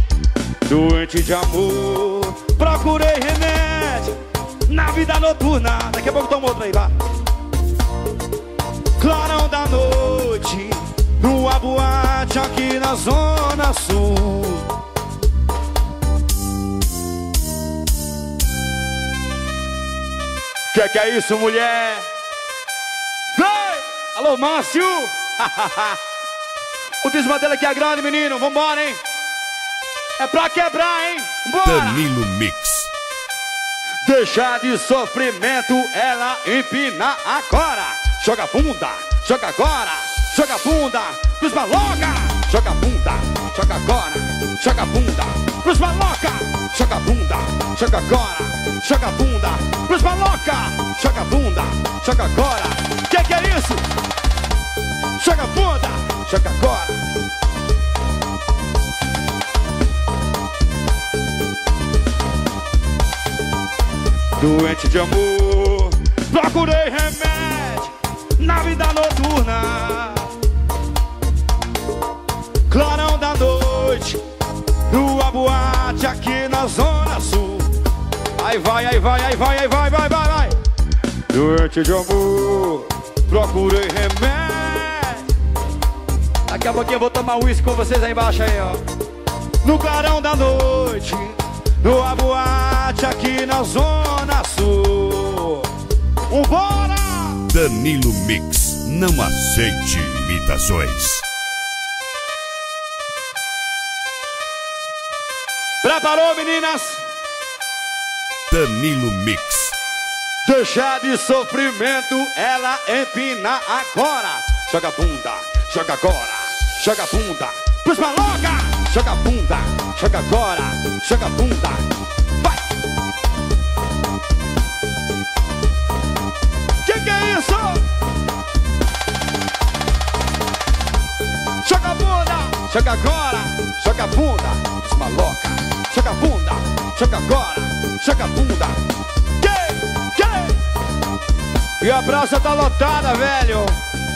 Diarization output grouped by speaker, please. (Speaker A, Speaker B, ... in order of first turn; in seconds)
Speaker A: 0.6-6.9, 9.0-14.7, 20.7-22.1, 23.3-26.0, 27.0-29.0, 30.2-32.0, 34.0-53.8, 55.2-57.0, 64.3-70.3, 72.7-74.2, 74.9-77.7, 78.4-80.5, 81.3-85.2, 86.5-88.8, 89.6-95.7, 96.3-97.5, 105.8-107.0, 110.4-121.9, 126.8-127.9, 131.6-138.8, 139.4-140.6, 141.8-143.8
Speaker B: 31.6-32.9, 97.5-101.2, 108.5-109.8